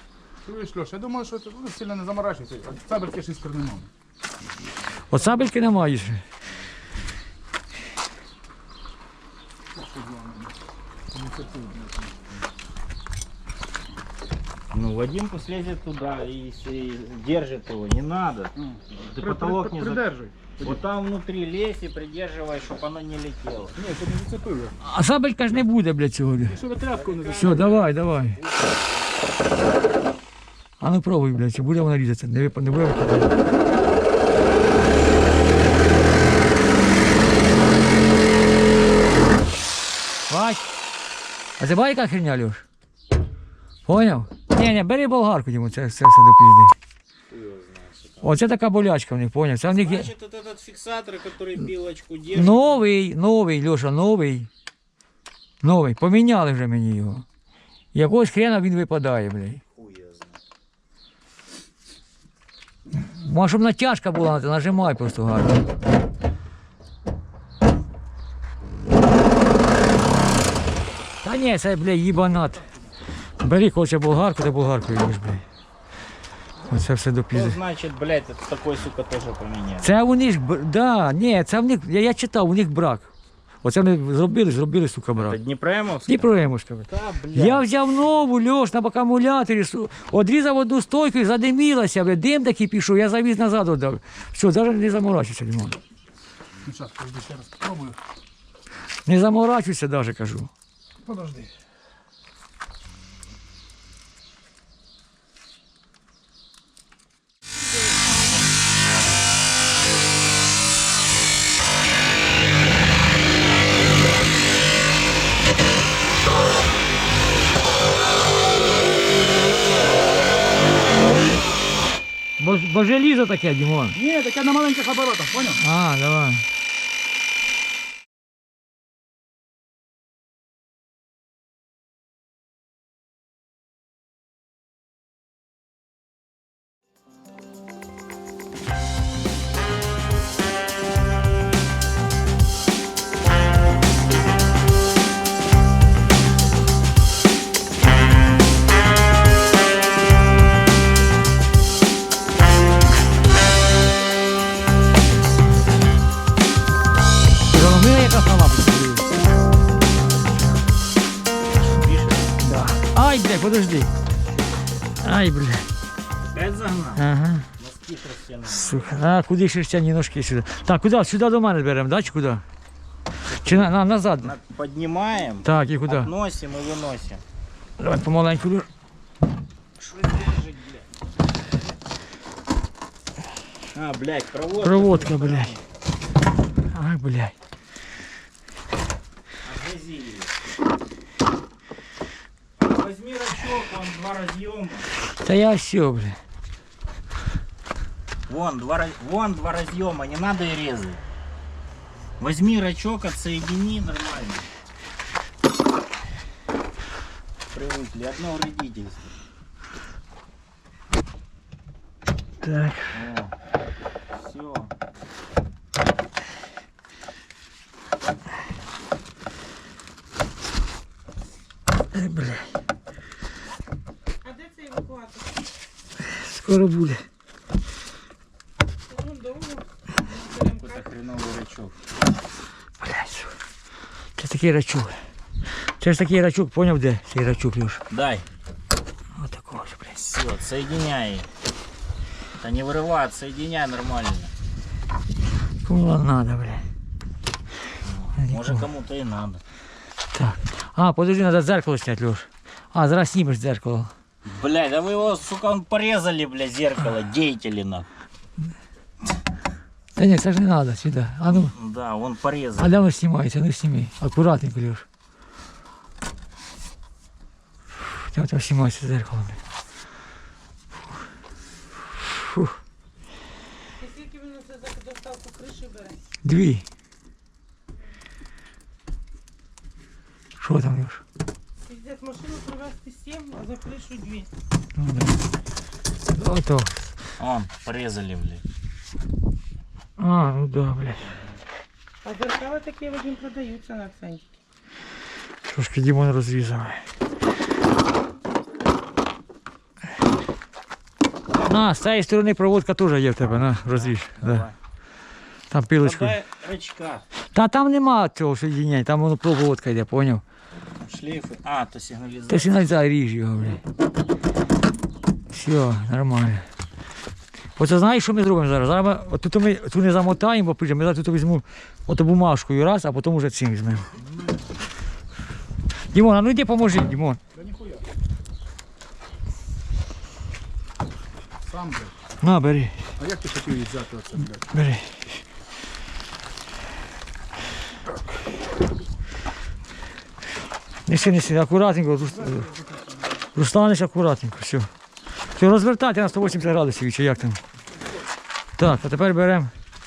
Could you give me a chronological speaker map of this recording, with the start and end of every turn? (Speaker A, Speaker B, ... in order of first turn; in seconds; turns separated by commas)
Speaker A: 0.4-3.9, Speaker B: 5.1-6.2, Speaker A: 9.7-10.6, Speaker A: 11.1-12.2, Speaker C: 14.7-20.1, Speaker A: 18.6-20.8, Speaker C: 20.6-23.8, Speaker A: 23.8-24.8, Speaker B: 24.8-26.6, Speaker A: 26.4-27.8, Speaker C: 26.9-28.8, Speaker B: 27.4-28.4, Speaker B: 30.8-33.3, Speaker B: 40.3-40.7, Speaker B: 41.6-42.6, Speaker B: 43.9-46.8, Speaker C: 47.3-48.3, Speaker B: 48.2-50.1, Speaker C: 49.7-52.8, Speaker B: 52.3-54.5, Speaker B: 55.6-57.2, Speaker B: 57.9-59.6, Speaker C: 59.7-60.4, Speaker B: 63.0-65.7, Speaker B: 71.2-72.7, Speaker B: 73.4-75.4, Speaker B: 76.7-77.6, Speaker C: 77.3-79.9, Speaker B: 79.8-83.1, Speaker B: 83.6-85.4, Speaker C: 85.2-86.3, Speaker B: 86.1-95.8, Speaker C: 86.9-87.7, Speaker A: 96.6-98.0, Speaker B: 99.0-100.5, Speaker A: 101.0-101.5, Speaker B: 122.4-124.0, Speaker A: 123.9-125.6, Speaker B: 125.6-126.5, Speaker B: 157.5-159.1, Speaker C: 161.4-162.3, Speaker B: 162.4-163.9, Speaker B: 165.0-165.7, Speaker C: 166.3-167.1, Speaker B: 167.0-167.5, Speaker C: 167.6-169.2, Speaker B: 168.5-172.4, Speaker C: 173.2-177.2, Speaker B: 173.4-174.3, Speaker B: 175.4-176.1, Speaker B: 177.8-178.7, Speaker C: 179.8-180.8, Speaker C: 183.7-185.6, Speaker B: 184.6-185.5, Speaker B: 186.7-187.3, Speaker C: 189.4-190.3, Speaker C: 192.6-194.9, Speaker B: 195.2-196.2, Speaker C: 198.3-201.0, Speaker C: 202.2-204.5, Speaker C: 207.5-209.0, Speaker B: 212.4-212.9, Speaker C: 212.9-213.3, Speaker C: 214.1-214.7, Speaker B: 221.9-222.5, Speaker D: 224.2-225.4, Speaker B: 226.0-227.0, Speaker D: 228.9-230.9, Speaker C: 230.6-231.8, Speaker B: 232.8-233.3, Speaker B: 234.2-235.0, Speaker B: 235.6-237.8, Speaker C: 237.9-238.2, Speaker B: 239.1-240.0, Speaker C: 240.0-241.3, Speaker C: 242.4-244.3, Speaker B: 245.6-246.6, Speaker C: 247.8-249.4, Speaker B: 248.2-248.6, Speaker B: 250.1-253.9, Speaker C: 254.3-257.9, Speaker B: 259.9-261.5, Speaker C: 261.3-262.7, Speaker B: 262.6-264.9, Speaker B: 267.8-269.4, Speaker B: 271.9-272.6, Speaker D: 273.8-276.0, Speaker B: 276.2-276.6, Speaker B: 280.4-281.0, Speaker D: 281.6-284.3, Speaker B: 284.8-285.2, Speaker B: 286.1-286.8, Speaker C: 287.2-288.4, Speaker B: 290.0-291.2, Speaker D: 292.0-294.3, Speaker B: 295.4-296.9, Speaker B: 301.4-304.5, Speaker C: 303.5-304.6, Speaker B: 305.5-306.1, Speaker C: 305.8-307.1, Speaker B: 307.3-310.2, Speaker C: 310.8-312.6, Speaker B: 312.3-313.6, Speaker B: 315.3-316.5, Speaker B: 317.6-323.9, Speaker C: 324.0-324.4, Speaker B: 325.9-327.2, Speaker A: 327.3-327.9, Speaker A: 331.4-331.9, Speaker B: 332.2-332.8, Speaker A: 333.0-334.5, Speaker B: 334.5-335.2, Speaker B: 340.9-342.5, Speaker A: 342.1-343.2, Speaker B: 343.4-344.7, Speaker B: 345.2-347.4, Speaker B: 348.6-349.5